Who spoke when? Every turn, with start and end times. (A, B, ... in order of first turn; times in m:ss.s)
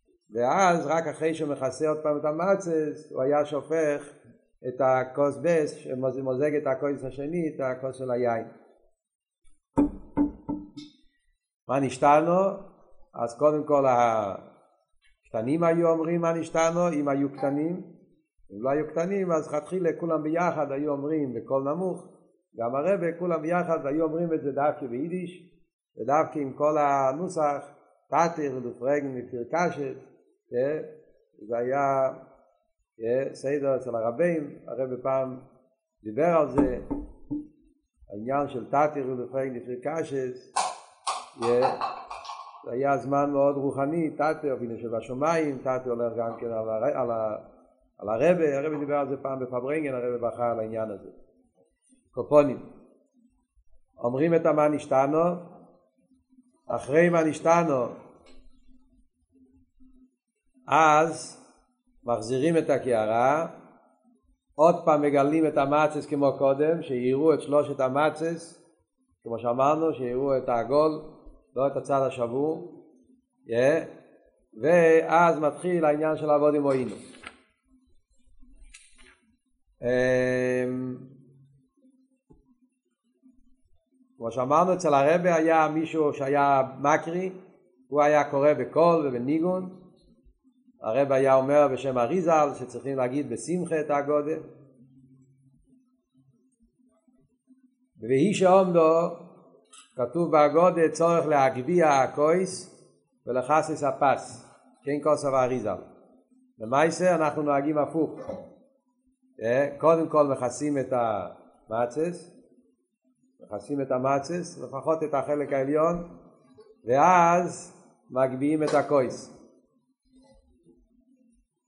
0:00.3-0:08.5 A
0:11.7-0:12.6 A
0:13.1-0:14.4 A
0:15.2-0:17.9 A
0:18.5-0:25.4 A
0:26.0-0:32.2 A
0:33.0-0:35.4 A
0:36.0-0:36.8 A
0:38.1-0:40.5 A
0:41.4-0:41.8 A
0:42.6-0:47.4 A
0:48.0-0:51.1 A
0:52.1-0:52.6 A
0:54.0-0:55.4 A
0:56.7-0:57.9 A
1:00.7-1:01.4 A
1:02.0-1:03.5 A
1:04.6-1:08.6 A
1:09.2-1:12.7 A
1:13.4-1:13.9 A
1:14.5-1:17.0 A
1:19.8-1:21.0 A
1:24.2-1:27.4 A
1:27.9-1:29.7 A
1:30.8-1:34.4 A
1:38.0-1:39.2 A
1:40.0-1:42.7 A
1:43.2-1:45.8 A
1:46.6-1:48.2 A
1:49.4-1:52.3 A
1:53.4-1:56.0 A
1:56.8-1:59.3 A